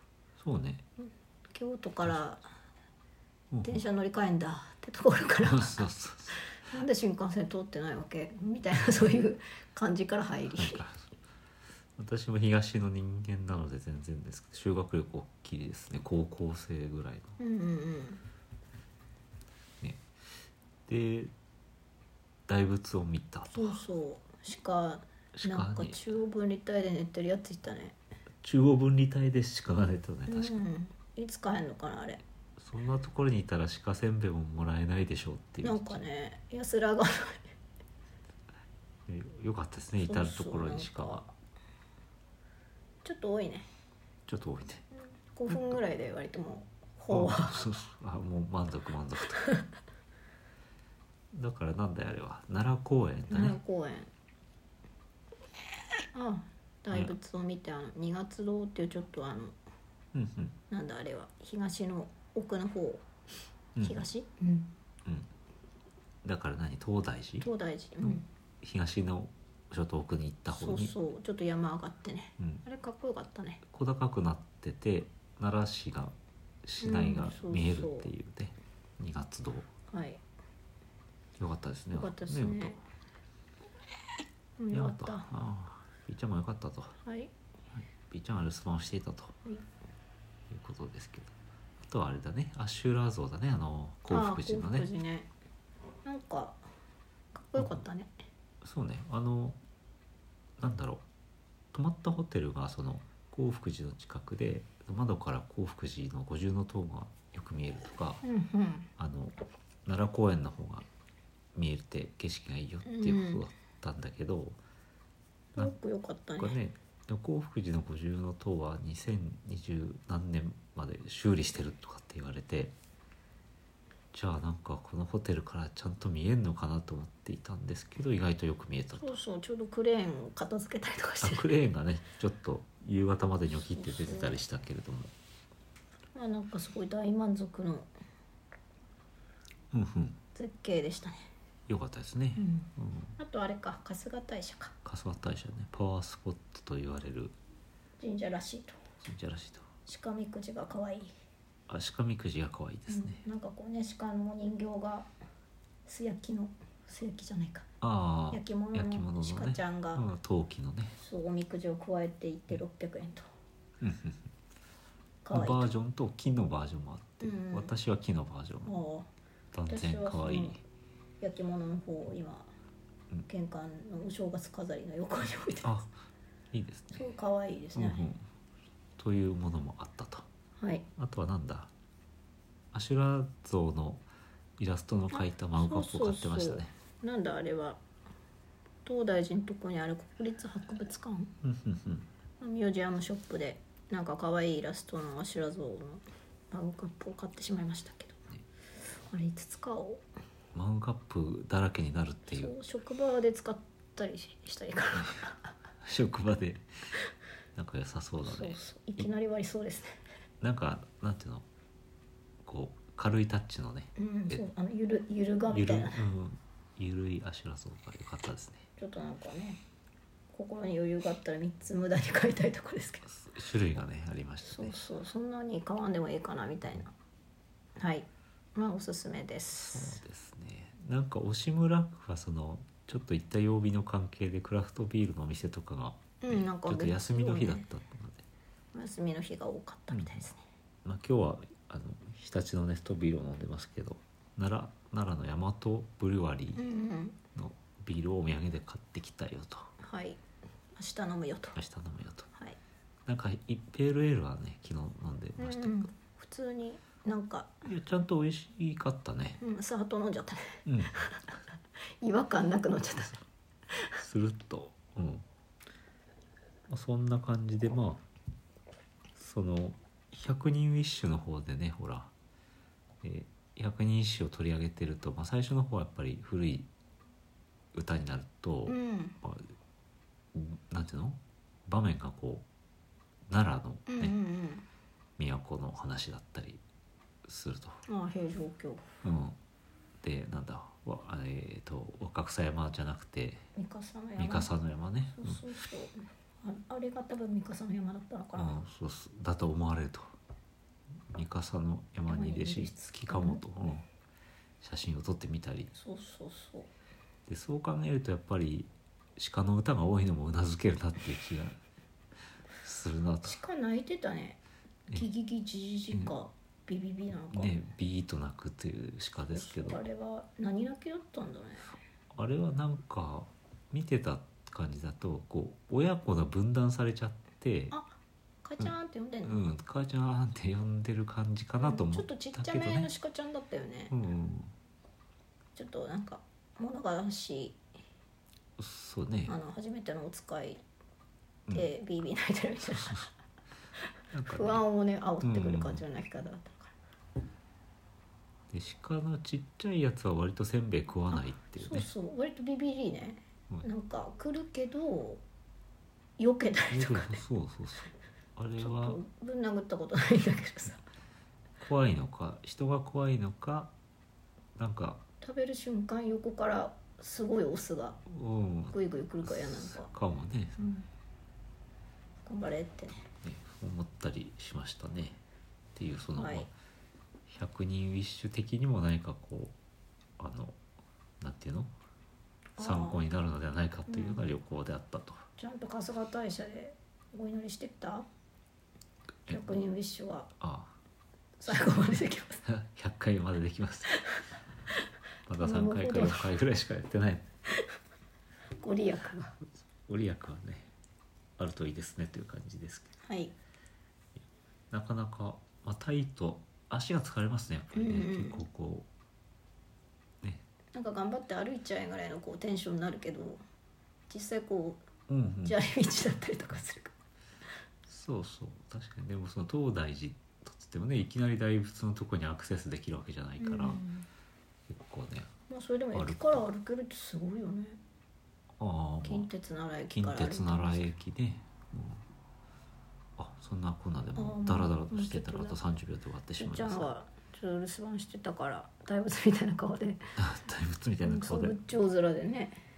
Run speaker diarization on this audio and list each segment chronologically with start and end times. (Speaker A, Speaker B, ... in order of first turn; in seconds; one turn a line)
Speaker A: 0.4-0.8
Speaker B: 1.0-2.4
Speaker A: 3.5-3.8
Speaker B: 3.6-10.8
Speaker A: 5.5-6.4
Speaker A: 10.5-11.1
Speaker A: 12.0-17.4
Speaker B: 17.4-18.2
Speaker A: 20.9-21.3
Speaker A: 22.5-23.8
Speaker B: 23.5-27.9
Speaker A: 25.3-26.0
Speaker A: 28.4-30.6
Speaker B: 30.3-32.2
Speaker A: 32.6-36.0
Speaker B: 35.6-37.5
Speaker A: 39.1-41.2
Speaker B: 40.0-41.3
Speaker B: 43.0-43.7
Speaker A: 44.3-44.9
Speaker B: 45.3-47.6
Speaker A: 47.1-49.4
Speaker A: 51.3-53.6
Speaker B: 53.3-54.1
Speaker B: 56.1-59.5
Speaker A: 60.1-60.6
Speaker B: 60.7-63.0
Speaker A: 63.8-64.0
Speaker B: 63.8-64.7
Speaker A: 66.2-67.5
Speaker B: 67.4-68.2
Speaker A: 68.0-70.9
Speaker B: 70.5-73.6
Speaker A: 73.7-79.7
Speaker B: 76.8-78.1
Speaker B: 79.9-80.2
Speaker A: 81.4-82.8
Speaker B: 81.9-82.8
Speaker B: 84.6-85.3
Speaker A: 84.7-87.0
Speaker B: 87.0-87.3
Speaker A: 87.7-89.3
Speaker A: 90.5-94.9
Speaker B: 94.1-95.3
Speaker B: 96.0-96.6
Speaker B: 97.3-98.1
Speaker A: 97.5-97.8
Speaker A: 98.6-99.6
Speaker A: 100.6-101.0
Speaker A: 101.7-108.2
Speaker B: 108.2-108.9
Speaker A: 109.0-110.8
Speaker A: 111.5-114.6
Speaker B: 112.8-113.4
Speaker B: 115.5-116.6
Speaker A: 116.4-122.7
Speaker A: 124.1-129.1
Speaker B: 128.9-131.4
Speaker A: 131.2-135.1
Speaker B: 133.4-134.4
Speaker B: 136.1-137.9
Speaker A: 139.7-140.2
Speaker B: 140.3-141.3
Speaker A: 141.7-143.1
Speaker B: 142.3-144.7
Speaker A: 144.8-147.3
Speaker B: 148.0-148.8
Speaker A: 149.0-149.7
Speaker B: 149.8-151.1
Speaker A: 151.7-153.2
Speaker B: 152.9-155.1
Speaker B: 155.8-157.7
Speaker A: 157.8-161.0
Speaker B: 158.3-160.0
Speaker B: 161.0-163.2
Speaker A: 163.8-164.3
Speaker B: 165.2-165.7
Speaker A: 165.3-168.7
Speaker B: 167.2-167.7
Speaker B: 168.6-169.1
Speaker A: 169.5-170.6
Speaker B: 169.7-170.6
Speaker B: 171.2-172.5
Speaker B: 173.3-175.8
Speaker A: 175.6-175.9
Speaker A: 176.5-177.1
Speaker B: 176.9-178.0
Speaker A: 177.7-178.2
Speaker A: 179.0-180.2
Speaker B: 180.6-180.9
Speaker A: 181.0-181.7
Speaker A: 182.7-184.0
Speaker A: 184.6-186.7
Speaker B: 185.1-187.8
Speaker B: 188.8-191.3
Speaker A: 191.4-192.1
Speaker B: 192.4-198.2
Speaker B: 198.9-200.0
Speaker A: 200.5-202.5
Speaker B: 202.3-205.5
Speaker A: 205.8-206.7
Speaker A: 207.5-209.1
Speaker B: 208.2-210.0
Speaker A: 210.4-211.4
Speaker A: 212.4-214.4
Speaker B: 213.9-216.0
Speaker A: 215.5-218.7
Speaker B: 218.8-219.6
Speaker B: 220.3-223.1
Speaker A: 223.1-224.8
Speaker B: 224.4-226.9
Speaker B: 227.8-230.0
Speaker A: 229.5-238.2
Speaker B: 236.2-237.7
Speaker B: 238.7-240.4
Speaker A: 239.9-240.2
Speaker A: 240.8-246.6
Speaker B: 246.5-247.2
Speaker A: 247.3-249.7
Speaker B: 249.8-250.2
Speaker B: 250.7-251.6
Speaker A: 251.5-252.3
Speaker A: 253.1-255.9
Speaker B: 255.4-257.6
Speaker A: 257.6-259.4
Speaker B: 259.4-261.4
Speaker A: 260.6-261.0
Speaker B: 262.0-264.0
Speaker A: 264.0-265.2
Speaker A: 266.7-268.0
Speaker A: 269.1-272.1
Speaker A: 273.0-276.7
Speaker A: 277.7-279.5
Speaker B: 278.7-279.2
Speaker A: 280.3-282.4
Speaker A: 283.3-284.1
Speaker B: 283.9-284.6
Speaker A: 285.2-286.6
Speaker A: 287.2-287.8
Speaker B: 287.9-288.9
Speaker A: 289.0-289.4
Speaker A: 290.0-293.5
Speaker B: 293.5-294.5
Speaker A: 294.2-295.4
Speaker B: 295.1-298.6
Speaker A: 298.4-300.1
Speaker A: 301.1-303.9
Speaker B: 302.1-303.4
Speaker A: 304.6-305.7
Speaker B: 305.7-306.7
Speaker A: 307.3-311.6
Speaker A: 312.6-313.4
Speaker B: 313.2-317.5
Speaker A: 317.2-319.8
Speaker B: 319.3-321.7
Speaker A: 322.1-327.7
Speaker B: 327.7-329.4
Speaker A: 329.2-332.9
Speaker B: 331.6-333.9
Speaker A: 333.9-334.5
Speaker B: 335.5-337.6
Speaker A: 338.6-339.4
Speaker B: 339.3-340.6
Speaker B: 341.5-343.1
Speaker A: 342.8-343.1
Speaker A: 344.1-344.6
Speaker B: 344.3-346.7
Speaker A: 345.2-345.8
Speaker A: 348.5-351.9
Speaker B: 351.1-355.2
Speaker B: 356.2-357.2
Speaker A: 356.7-359.0
Speaker B: 358.6-360.8
Speaker A: 361.6-363.7
Speaker A: 364.6-365.0
Speaker B: 365.2-368.0
Speaker A: 368.1-370.7
Speaker B: 368.7-369.9
Speaker B: 370.6-370.9
Speaker B: 372.2-373.0
Speaker A: 373.2-375.2
Speaker A: 375.7-376.5
Speaker B: 376.2-376.5
Speaker A: 377.3-379.5
Speaker A: 380.2-380.6
Speaker A: 381.2-381.7
Speaker B: 382.6-383.1
Speaker A: 382.6-385.2
Speaker B: 383.9-384.2
Speaker B: 385.4-388.1
Speaker B: 389.3-390.3
Speaker A: 390.4-390.7
Speaker B: 391.4-392.4
Speaker A: 391.5-391.8
Speaker A: 392.4-393.9
Speaker B: 393.9-394.3
Speaker A: 395.3-397.3
Speaker B: 395.4-396.4
Speaker B: 398.6-399.4
Speaker A: 399.9-400.7
Speaker A: 401.4-402.9
Speaker B: 403.0-403.3
Speaker A: 404.7-408.9
Speaker B: 407.7-408.4
Speaker B: 410.7-413.4
Speaker B: 414.1-414.9
Speaker A: 415.1-415.6
Speaker B: 415.4-416.9
Speaker A: 417.9-423.8
Speaker B: 423.4-424.1
Speaker A: 424.7-425.3
Speaker B: 425.5-427.8
Speaker A: 425.9-426.4
Speaker A: 428.6-429.3
Speaker B: 429.0-430.9
Speaker A: 429.9-432.0
Speaker A: 433.2-436.9
Speaker B: 434.1-435.6
Speaker B: 436.4-440.0
Speaker A: 440.2-441.6
Speaker B: 441.0-442.6